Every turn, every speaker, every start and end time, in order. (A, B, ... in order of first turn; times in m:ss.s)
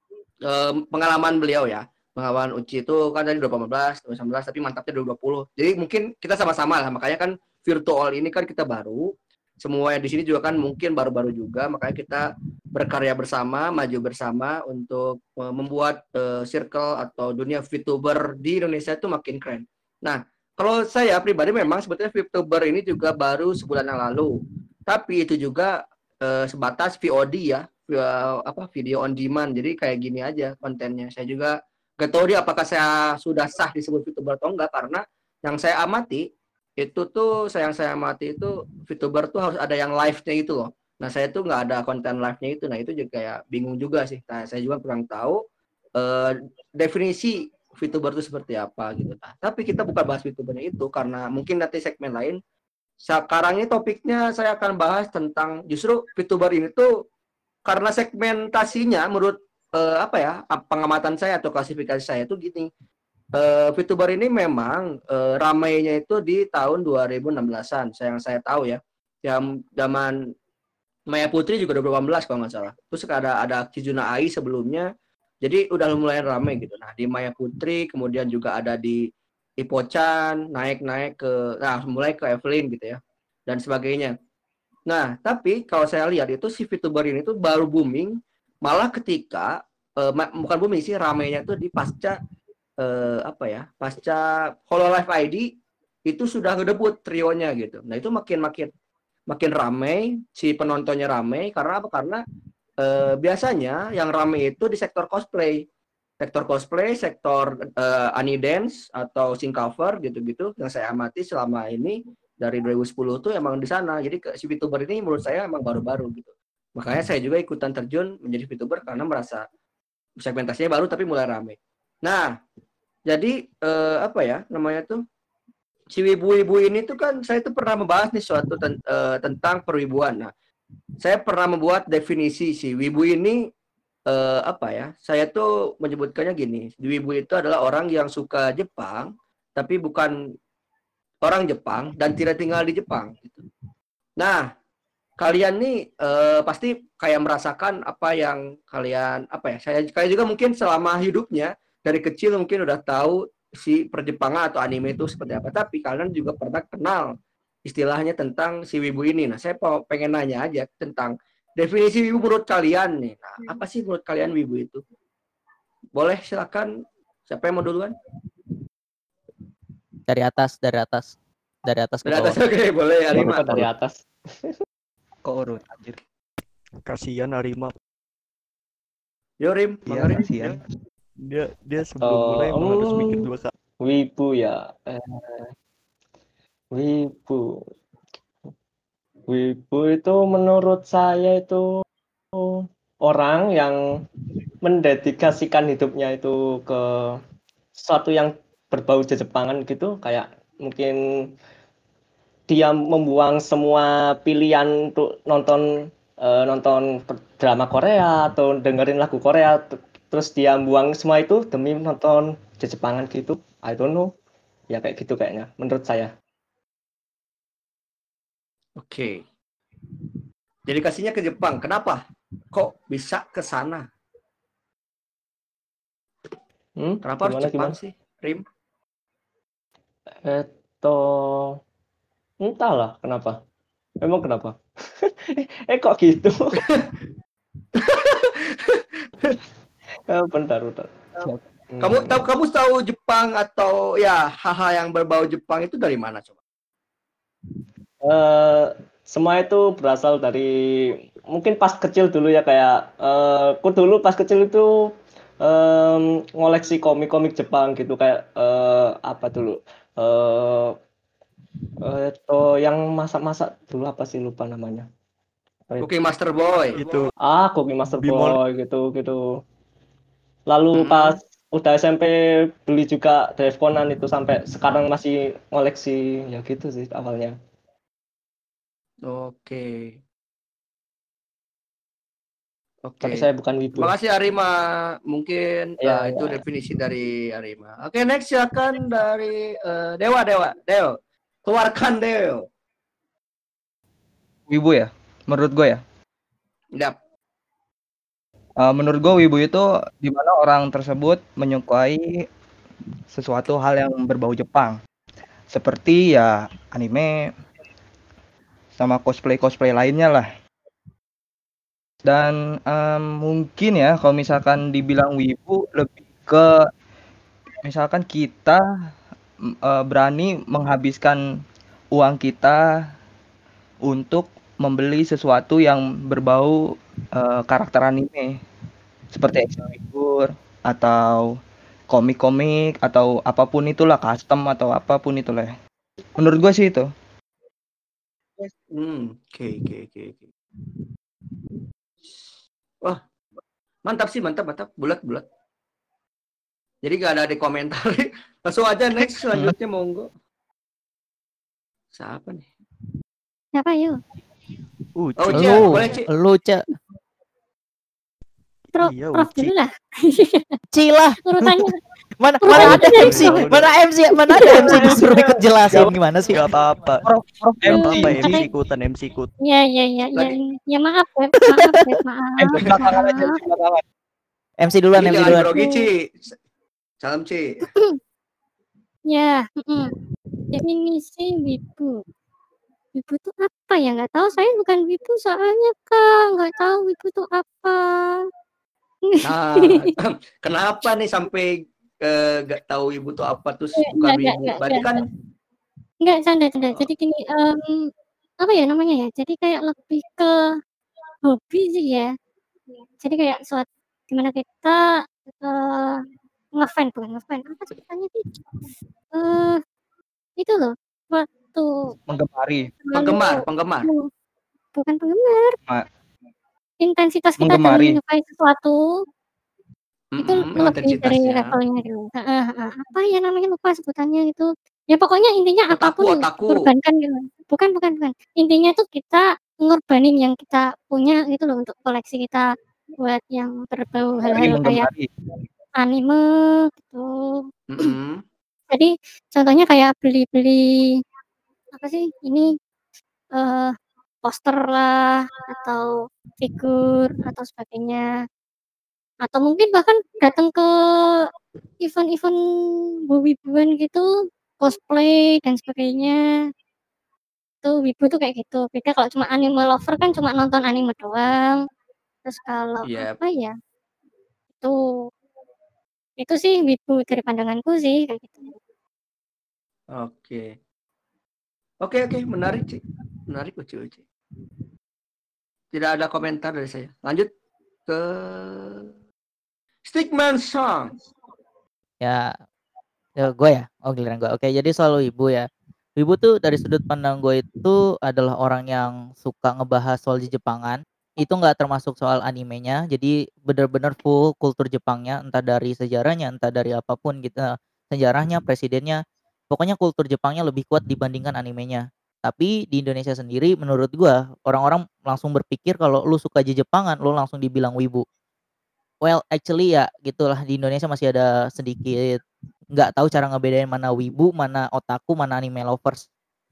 0:00.5-0:36.2 A
0:36.8-0:45.4 A
0:46.0-0:52.4 A
0:53.0-0:56.9 A
0:57.6-1:02.7 A
1:03.3-1:10.1 A
1:11.1-1:14.9 A
1:15.4-1:19.0 A
1:19.6-1:24.1 A
1:24.9-1:32.2 A
1:32.8-1:35.5 A
1:36.1-1:38.7 A
1:39.3-1:42.2 A
1:42.8-1:45.6 A
1:46.2-1:59.4 A
2:00.2-2:02.3 A
2:03.1-2:05.0 A
2:05.9-2:10.3 A
2:11.0-2:13.4 A
2:14.1-2:20.1 A
2:21.2-2:23.4 A
2:24.2-2:24.5 A
2:25.2-2:37.1 A
2:37.6-2:44.8 A
2:45.9-2:46.7 A
2:47.2-2:47.9 A
2:50.1-2:52.4 B
2:52.0-2:53.6 A
2:53.1-2:54.0 C
2:55.2-2:56.0 D
2:56.8-2:57.7 E
2:59.4-3:00.4 A
2:59.8-3:00.6 D
3:01.2-3:03.5 E
3:02.0-3:03.2 C
3:03.8-3:05.4 C
3:06.7-3:07.6 C
3:09.3-3:11.6 C
3:12.4-3:13.8 C
3:14.6-3:17.2 C
3:17.7-3:21.0 C
3:22.5-3:25.7 C
3:26.2-3:34.1 C
3:34.7-3:36.1 C
3:38.8-3:39.2 A
3:40.6-3:42.0 A
3:42.5-3:43.8 A
3:46.8-3:47.8 C
3:47.0-3:48.4 A
3:50.2-3:51.5 C
3:52.4-3:53.4 C
3:54.0-3:56.6 C
3:57.8-3:59.3 A
4:00.1-4:01.0 C
4:01.7-4:02.2 C
4:01.8-4:06.3 A
4:08.0-4:10.5 C
4:11.3-4:14.7 C
4:15.4-4:20.7 C
4:21.8-4:24.9 C
4:25.7-4:26.0 C
4:25.8-4:26.8 A
4:26.7-4:27.1 E
4:27.2-4:29.3 C
4:28.0-4:28.4 E
4:30.5-4:37.3 C
4:30.8-4:31.2 A
4:39.0-4:39.9 A
4:42.8-4:52.4 A
4:43.0-4:43.9 C
4:45.8-4:46.4 C
4:54.5-4:55.8 D
4:58.6-5:02.3 D
5:03.1-5:04.8 D
5:05.5-5:07.3 D
5:08.8-5:10.3 D
5:12.0-5:16.7 D
5:17.6-5:18.6 D
5:19.6-5:21.4 D
5:21.9-5:22.7 D
5:23.8-5:28.4 D
5:29.1-5:31.3 D
5:31.9-5:35.6 D
5:36.2-5:36.9 D
5:38.7-5:40.2 A
5:43.8-5:45.2 A
5:46.8-5:50.1 A
5:51.9-5:52.5 A
5:53.6-5:54.0 F
5:55.0-5:55.8 E
5:55.2-5:56.1 A
5:55.3-5:56.6 B
5:58.7-5:59.5 E
5:58.8-6:00.5 F
6:00.7-6:01.6 B
6:01.2-6:01.7 F
6:02.2-6:06.4 B
6:02.4-6:03.5 F
6:02.5-6:03.7 E
6:04.4-6:04.8 F
6:04.6-6:05.0 D
6:06.3-6:07.1 E
6:07.0-6:08.4 D
6:07.6-6:09.3 E
6:07.6-6:08.5 F
6:09.4-6:13.4 F
6:12.4-6:13.8 D
6:14.6-6:15.6 B
6:14.9-6:16.3 A
6:17.0-6:17.5 A
6:19.1-6:19.9 F
6:20.5-6:22.0 F
6:23.0-6:28.2 F
6:29.2-6:35.0 A
6:33.8-6:35.0 F
6:36.0-6:37.8 F
6:38.4-6:40.3 F
6:41.3-6:42.1 F
6:43.0-6:44.8 F
6:45.4-6:46.0 F
6:46.6-6:48.2 F
6:49.1-6:49.6 F
6:50.4-6:51.7 F
6:52.1-6:52.7 D
6:52.8-6:54.0 F
6:52.9-6:53.9 A
6:54.7-6:55.6 F
6:56.8-6:58.8 F
6:57.4-6:58.0 D
7:00.1-7:01.6 A
7:00.2-7:12.5 F
7:05.7-7:06.7 A
7:13.0-7:14.9 F
7:14.3-7:15.1 D
7:15.8-7:17.4 F
7:17.7-7:18.2 A
7:18.7-7:20.9 F
7:21.7-7:22.5 F
7:23.3-7:23.7 F
7:24.2-7:28.1 F
7:29.2-7:30.7 F
7:31.8-7:32.4 F
7:33.1-7:34.0 F
7:34.6-7:36.2 F
7:37.6-7:41.6 F
7:42.2-7:43.5 F
7:42.8-7:43.1 A
7:46.2-7:48.5 F
7:49.9-7:50.5 A
7:51.8-7:54.0 A
7:55.7-7:57.3 A
7:57.8-7:58.9 A
7:59.8-8:00.9 A
8:02.0-8:02.3 B
8:03.2-8:28.0 B
8:29.0-8:32.2 B
8:32.7-8:36.0 B